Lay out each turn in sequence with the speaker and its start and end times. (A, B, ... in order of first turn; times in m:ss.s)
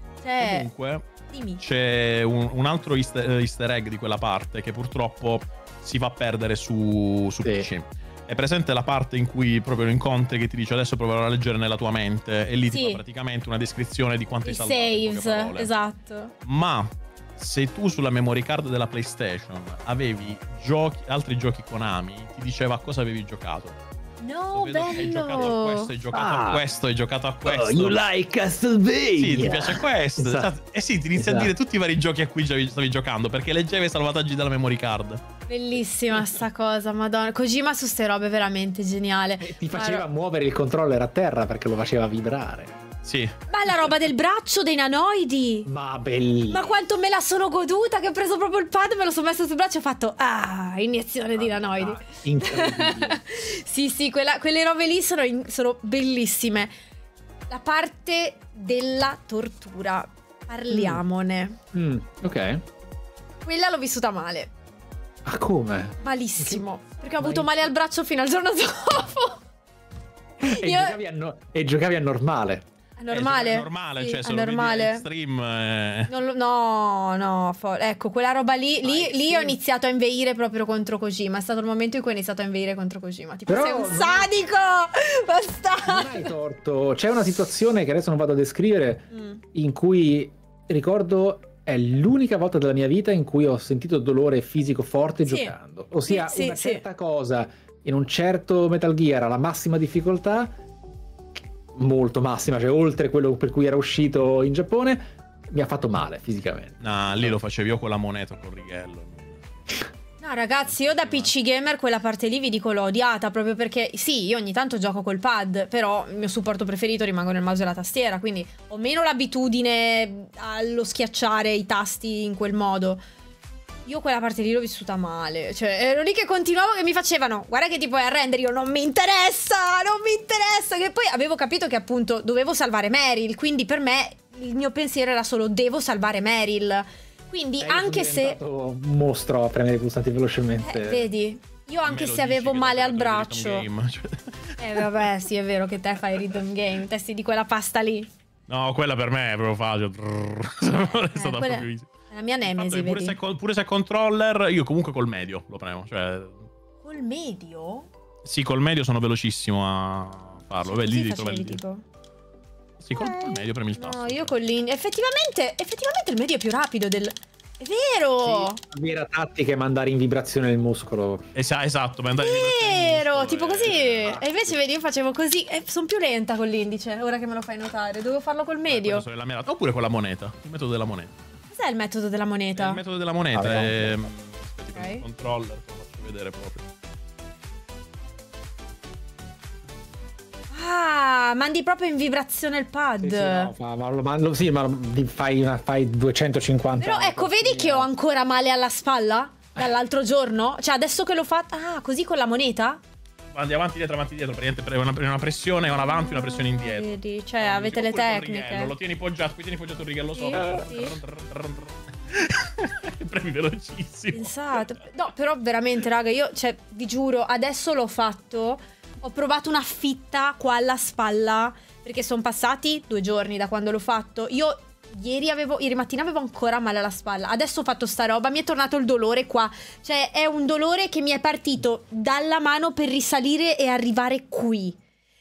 0:00.2-0:00.7 A
0:00.4-0:01.1 B
0:01.3-0:01.6 A
0:01.6-0:15.7 B
0:12.7-0:13.0 A
0:14.4-0:16.3 A
0:16.4-0:23.8 B
0:24.2-0:25.9 A
0:24.5-0:28.1 B
0:26.1-0:26.6 C
0:27.4-0:30.5 C
0:29.2-0:35.2 B
0:31.1-0:31.5 C
0:35.5-0:40.0 A
0:39.4-0:42.8 C
0:43.0-0:43.3 B
0:43.5-0:45.7 A
0:45.6-0:46.8 C
0:46.5-0:56.7 A
0:51.4-0:53.2 C
0:57.5-1:01.6 A
1:00.7-1:01.0 C
1:01.7-1:02.6 C
1:03.4-1:04.5 A
1:05.2-1:06.6 C
1:06.0-1:09.4 A
1:07.2-1:07.7 C
1:10.4-1:11.0 A
1:10.4-1:12.6 C
1:13.0-1:15.0 A
1:13.1-1:16.1 B
1:16.1-1:26.3 A
1:18.8-1:19.6 C
1:23.5-1:24.3 C
1:25.8-1:40.6 C
1:29.1-1:29.4 A
1:35.2-1:35.6 A
1:36.1-1:36.8 A
1:41.7-1:47.4 C
1:46.8-1:49.4 B
1:50.2-2:03.0 A
1:50.7-1:51.3 B
2:03.8-2:18.4 A
2:17.6-2:21.1 C
2:20.6-2:23.7 A
2:21.8-2:24.8 B
2:24.6-2:28.1 A
2:28.5-2:31.9 B
2:31.1-2:33.2 A
2:32.5-2:36.4 B
2:36.8-2:37.9 A
2:38.2-2:41.6 B
2:40.6-2:41.8 A
2:42.8-2:44.3 B
2:43.0-2:48.6 A
2:48.2-2:51.3 C
2:51.4-2:54.2 B
2:52.2-2:59.0 A
2:54.0-2:54.4 C
2:58.7-3:01.1 B
3:01.5-3:02.8 A
3:02.6-3:06.6 B
3:03.3-3:04.1 C
3:04.7-3:05.0 A
3:10.5-3:13.5 A
3:13.0-3:17.9 C
3:16.8-3:22.8 A
3:23.3-3:34.6 B
3:25.9-3:28.7 A
3:30.1-3:31.0 A
3:34.1-3:54.8 A